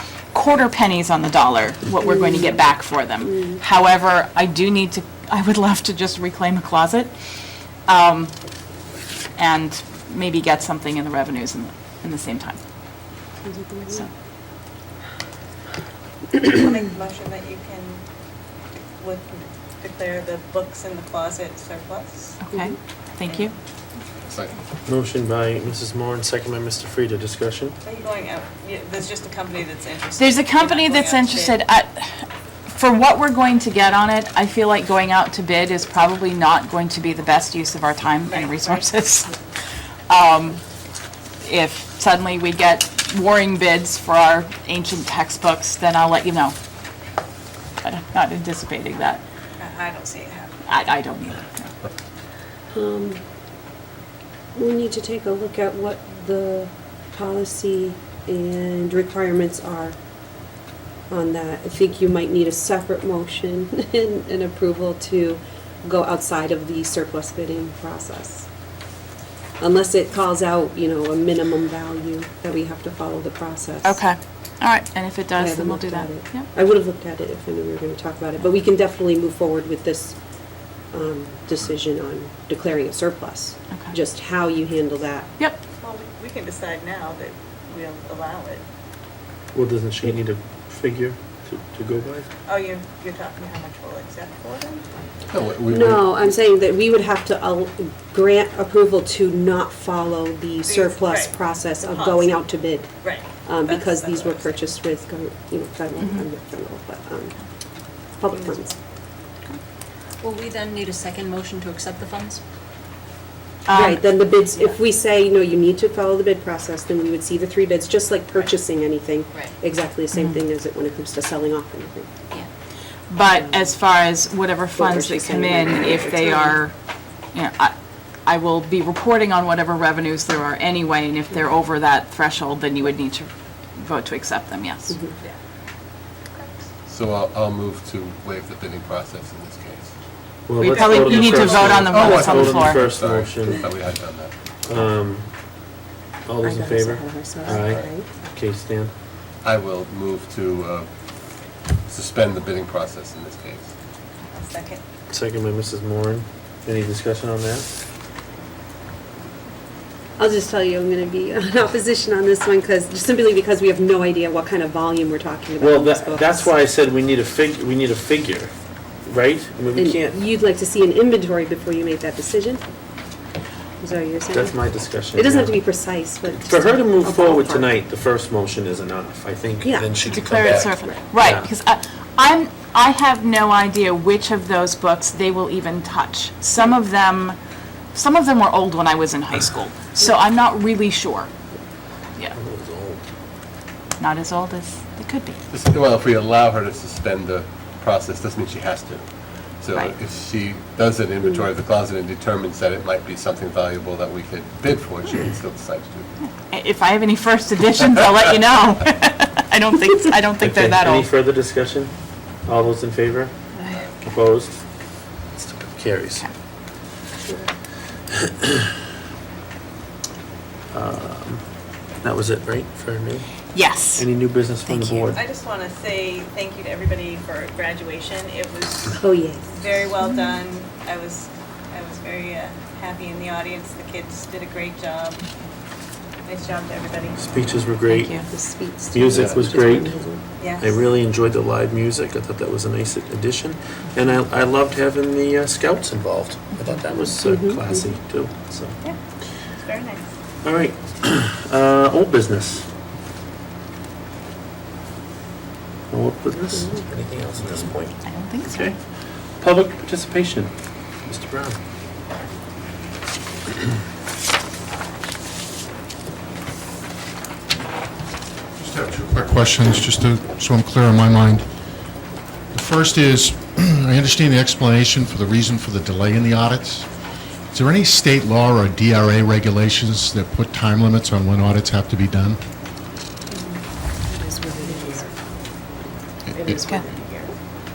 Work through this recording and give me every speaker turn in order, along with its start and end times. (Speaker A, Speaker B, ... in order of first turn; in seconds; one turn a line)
Speaker A: 0.3-7.1
Speaker B: 2.0-2.6
Speaker B: 3.2-3.6
Speaker A: 7.9-8.3
Speaker A: 9.4-12.6
Speaker B: 13.4-14.0
Speaker C: 16.3-18.0
Speaker C: 19.0-22.4
Speaker A: 22.4-23.5
Speaker D: 24.3-24.6
Speaker E: 24.9-27.7
Speaker C: 27.8-31.6
Speaker A: 30.2-39.3
Speaker C: 38.3-38.8
Speaker A: 40.1-40.6
Speaker A: 41.4-46.5
Speaker A: 47.8-49.2
Speaker C: 49.6-50.5
Speaker A: 50.7-51.7
Speaker B: 52.7-53.2
Speaker B: 54.5-60.0
Speaker B: 61.1-68.5
Speaker B: 69.6-74.0
Speaker A: 73.8-76.5
Speaker B: 75.4-80.2
Speaker B: 80.9-85.3
Speaker C: 85.8-88.6
Speaker E: 89.5-92.3
Speaker C: 92.5-94.8
Speaker D: 95.3-96.3
Speaker B: 95.7-102.9
Speaker C: 100.7-102.4
Speaker C: 103.0-104.5
Speaker B: 103.4-107.3
Speaker B: 108.2-108.7
Speaker C: 108.3-108.8
Speaker F: 110.2-112.4
Speaker A: 113.7-114.0
Speaker B: 113.7-122.1
Speaker A: 123.1-126.7
Speaker B: 123.3-123.7
Speaker B: 124.8-126.6
Speaker A: 127.3-127.7
Speaker A: 128.2-134.9
Speaker B: 134.9-135.2
Speaker D: 136.9-139.9
Speaker E: 140.5-143.7
Speaker C: 140.6-142.3
Speaker A: 140.6-142.8
Speaker D: 141.9-144.3
Speaker E: 144.7-145.3
Speaker E: 146.2-148.9
Speaker B: 146.4-148.1
Speaker D: 147.5-147.9
Speaker D: 149.4-150.9
Speaker D: 151.9-153.7
Speaker C: 154.3-154.8
Speaker E: 155.1-157.7
Speaker B: 160.2-166.5
Speaker E: 165.6-168.5
Speaker E: 169.0-170.2
Speaker B: 169.8-172.6
Speaker B: 173.8-177.7
Speaker E: 174.3-175.6
Speaker E: 176.2-181.5
Speaker B: 179.6-181.0
Speaker A: 180.1-187.4
Speaker A: 187.9-191.3
Speaker E: 192.3-193.0
Speaker A: 194.0-195.4
Speaker D: 195.5-199.1
Speaker D: 199.6-206.1
Speaker A: 206.5-211.1
Speaker E: 210.4-211.9
Speaker E: 212.4-213.3
Speaker E: 214.0-214.6
Speaker E: 215.4-216.2
Speaker B: 217.2-217.5
Speaker E: 218.1-218.6
Speaker E: 220.7-221.4
Speaker E: 222.0-223.3
Speaker A: 223.5-224.1
Speaker E: 223.9-225.2
Speaker A: 224.7-225.0
Speaker C: 225.1-235.2
Speaker B: 228.9-229.5
Speaker C: 236.2-237.2
Speaker E: 237.2-238.2
Speaker A: 237.9-238.2
Speaker B: 238.3-240.2
Speaker E: 238.9-239.9
Speaker D: 239.1-239.6
Speaker C: 240.4-240.9
Speaker E: 240.6-248.8
Speaker B: 247.2-247.8
Speaker C: 249.6-250.1
Speaker E: 250.4-252.7
Speaker E: 255.9-258.8
Speaker A: 258.1-258.7
Speaker E: 259.4-260.5
Speaker E: 261.1-261.6
Speaker G: 268.6-271.4
Speaker G: 272.5-276.9
Speaker G: 277.5-282.4
Speaker B: 283.3-283.6
Speaker B: 284.1-285.1
Speaker B: 286.3-287.3